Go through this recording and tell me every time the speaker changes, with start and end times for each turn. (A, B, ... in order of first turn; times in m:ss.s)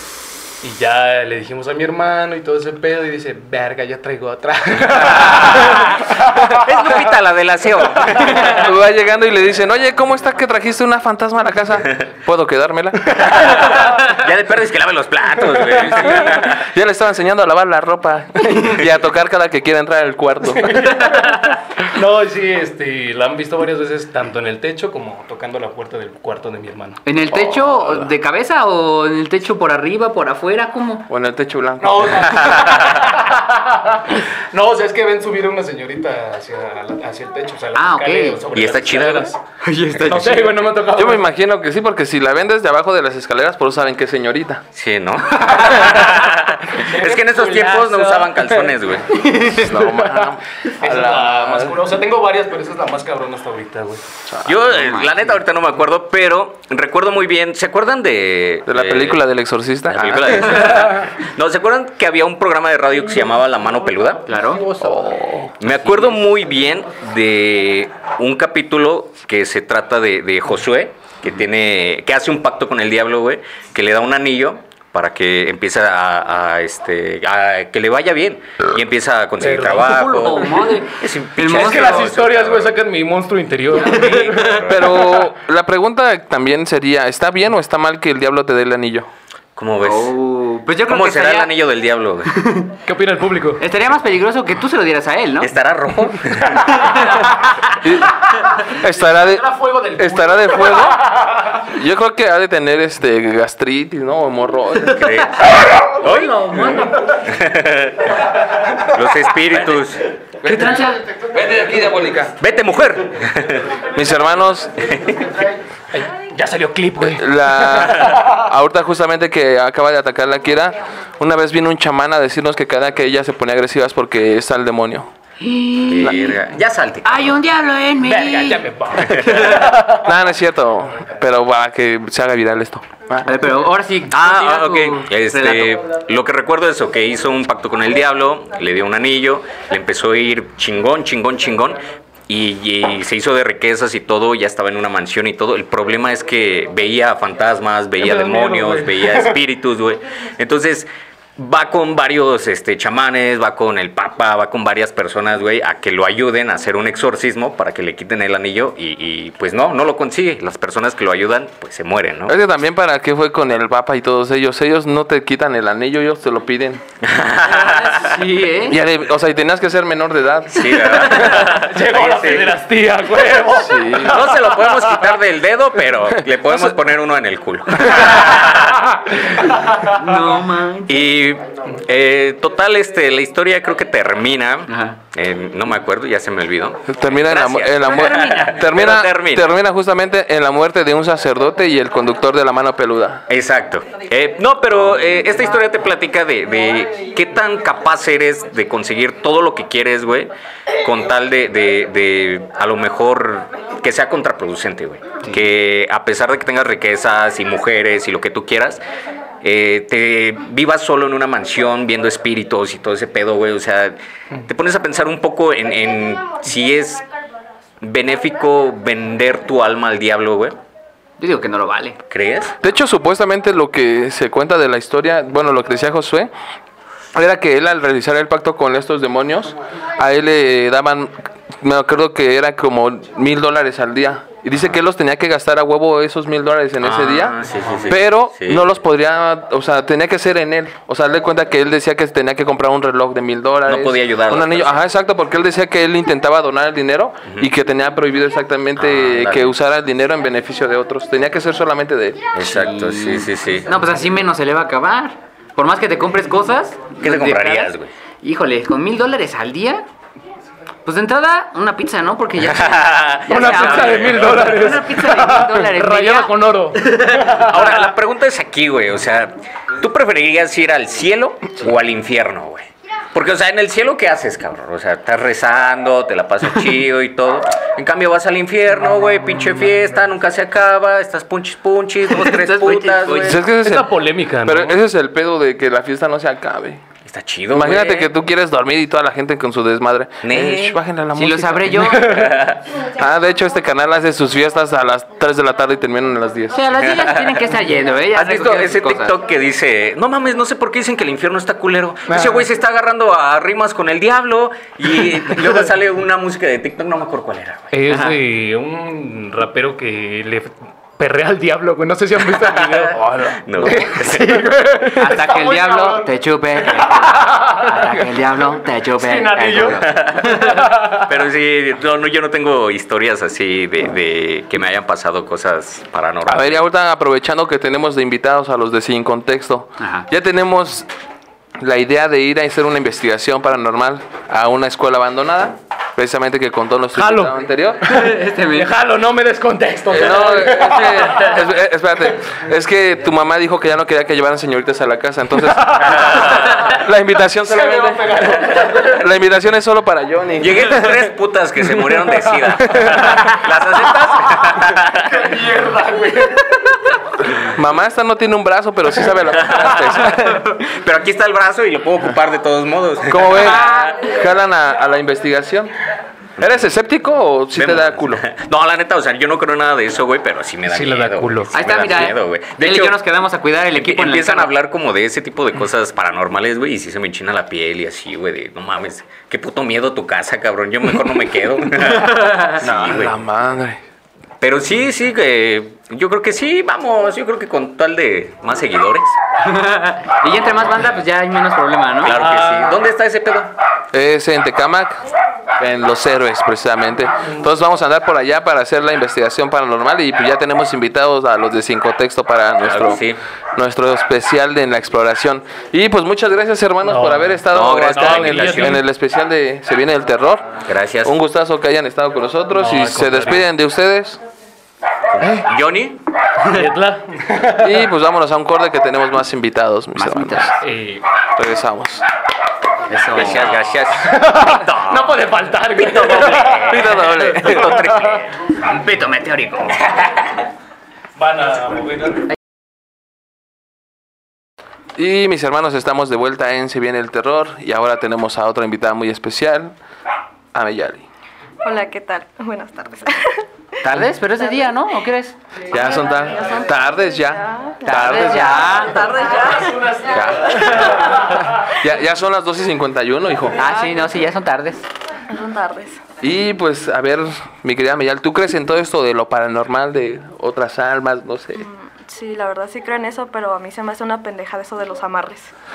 0:00.6-0:06.2 A
0:06.5-0:08.4 B
0:08.4-0:13.3 C
0:13.4-0:16.6 B
0:16.1-0:20.8 C
0:20.6-0:27.0 A
0:27.1-0:31.0 D
0:27.3-0:28.1 C
0:31.1-0:32.8 C
0:31.8-0:39.4 A
0:37.8-0:38.4 D
0:38.5-0:39.3 B
0:39.7-0:40.4 D
0:40.0-0:41.2 A
0:40.2-0:40.4 B
0:40.9-0:44.6 C
0:44.8-0:49.1 B
0:46.7-0:48.6 A
0:49.5-0:51.7 C
0:49.7-0:54.0 A
0:54.3-0:55.1 C
0:54.4-0:59.2 B
0:58.7-1:00.8 C
0:59.9-1:04.2 B
1:04.1-1:05.2 A
1:04.3-1:04.6 D
1:04.8-1:05.5 C
1:05.6-1:22.8 B
1:19.4-1:20.5 A
1:19.8-1:22.0 D
1:21.4-1:24.7 A
1:23.8-1:25.1 B
1:24.7-1:29.1 C
1:29.6-1:30.2 B
1:29.8-1:31.5 D
1:30.9-1:32.3 B
1:32.3-1:32.7 D
1:32.8-1:33.6 A
1:33.6-1:35.5 D
1:35.4-1:36.7 B
1:37.8-1:41.0 C
1:38.7-1:41.3 A
1:41.7-1:45.1 C
1:44.9-1:48.0 B
1:46.1-1:46.6 D
1:46.5-1:47.1 A
1:48.9-1:50.0 B
1:50.4-1:52.3 C
1:50.5-1:51.0 D
1:52.4-1:53.8 B
1:53.9-1:54.9 C
1:54.9-1:55.2 B
1:55.9-1:58.3 A
1:57.0-2:05.1 C
2:05.4-2:06.4 D
2:05.9-2:07.4 B
2:07.0-2:08.6 D
2:08.0-2:10.0 A
2:09.9-2:13.3 C
2:13.2-2:15.8 D
2:14.1-2:30.9 B
2:28.0-2:29.3 A
2:31.4-2:42.3 B
2:42.3-2:46.8 C
2:47.0-2:48.1 B
2:47.6-2:48.8 D
2:48.7-2:51.1 C
2:50.5-2:52.5 B
2:51.3-2:55.0 A
2:53.6-2:54.2 C
2:54.1-2:58.7 B
2:56.2-2:56.8 C
2:59.9-3:01.0 D
3:00.9-3:09.4 B
3:04.7-3:05.0 D
3:06.9-3:13.2 C
3:07.9-3:08.6 D
3:13.3-3:20.3 B
3:20.8-3:28.8 B
3:29.4-3:37.0 B
3:37.8-3:40.6 B
3:41.2-3:42.0 D
3:42.1-3:42.6 B
3:42.6-3:46.3 C
3:47.1-4:12.4 C
3:56.8-3:58.6 B
4:03.7-4:04.8 B
4:08.8-4:09.5 B
4:12.3-4:13.7 B
4:12.5-4:19.9 D
4:17.0-4:17.9 B
4:20.9-4:26.3 D
4:22.5-4:24.5 B
4:23.3-4:27.9 A
4:27.3-4:43.4 B
4:42.2-4:44.8 A
4:42.4-4:43.3 D
4:43.3-4:46.8 C
4:47.1-4:48.1 B
4:47.5-4:52.0 C
4:50.2-4:50.8 B
4:51.2-4:52.2 D
4:52.1-4:52.6 B
4:52.9-4:56.7 C
4:56.5-4:59.1 D
4:58.1-5:07.7 B
5:02.1-5:02.4 A
5:07.7-5:13.0 A
5:07.9-5:08.2 D
5:13.0-5:13.4 C
5:13.4-5:14.4 B
5:13.6-5:16.1 A
5:15.0-5:20.2 D
5:16.8-5:17.7 A
5:19.0-5:20.9 A
5:19.8-5:26.6 B
5:26.3-5:30.9 C
5:29.8-5:30.1 D
5:31.6-5:38.0 C
5:37.0-5:41.4 A
5:37.9-5:38.7 D
5:39.9-5:51.0 C
5:45.4-5:46.5 A
5:47.5-5:49.0 A
5:50.4-5:55.1 B
5:52.7-5:53.1 C
5:55.1-5:56.5 A
5:57.5-6:00.5 C
6:00.7-6:03.6 B
6:03.1-6:05.7 C
6:03.5-6:04.0 D
6:06.4-6:08.2 C
6:07.5-6:13.0 B
6:10.7-6:11.5 A
6:11.5-6:14.5 D
6:13.7-6:23.2 B
6:22.6-6:23.8 C
6:24.4-6:29.2 B
6:29.4-6:32.1 D
6:30.3-6:30.9 B
6:32.0-6:33.5 B
6:32.1-6:32.8 A
6:33.9-6:35.0 C
6:35.6-6:43.0 C
6:42.6-6:43.2 B
6:43.6-6:54.2 C
6:46.8-6:48.8 A
6:47.5-6:48.8 B
6:50.7-6:51.1 B
6:52.5-6:53.4 A
6:55.1-6:56.0 B
6:56.4-6:57.6 A
6:57.6-7:00.6 C
7:00.0-7:00.6 D
7:00.6-7:01.0 A
7:01.4-7:02.1 C
7:02.9-7:03.4 D
7:03.1-7:05.2 B
7:04.0-7:07.9 A
7:05.8-7:08.3 B
7:06.7-7:07.6 C
7:08.6-7:10.4 D
7:11.2-7:12.2 A
7:15.0-7:19.8 C
7:20.5-7:21.1 C
7:21.6-7:23.4 E
7:23.8-7:25.4 D
7:25.7-7:28.6 C
7:26.2-7:30.0 E
7:27.8-7:29.1 D
7:30.0-7:33.7 C
7:33.6-7:34.8 D
7:33.7-7:34.1 E
7:35.3-7:36.0 E
7:36.2-7:41.7 C
7:41.6-7:45.5 E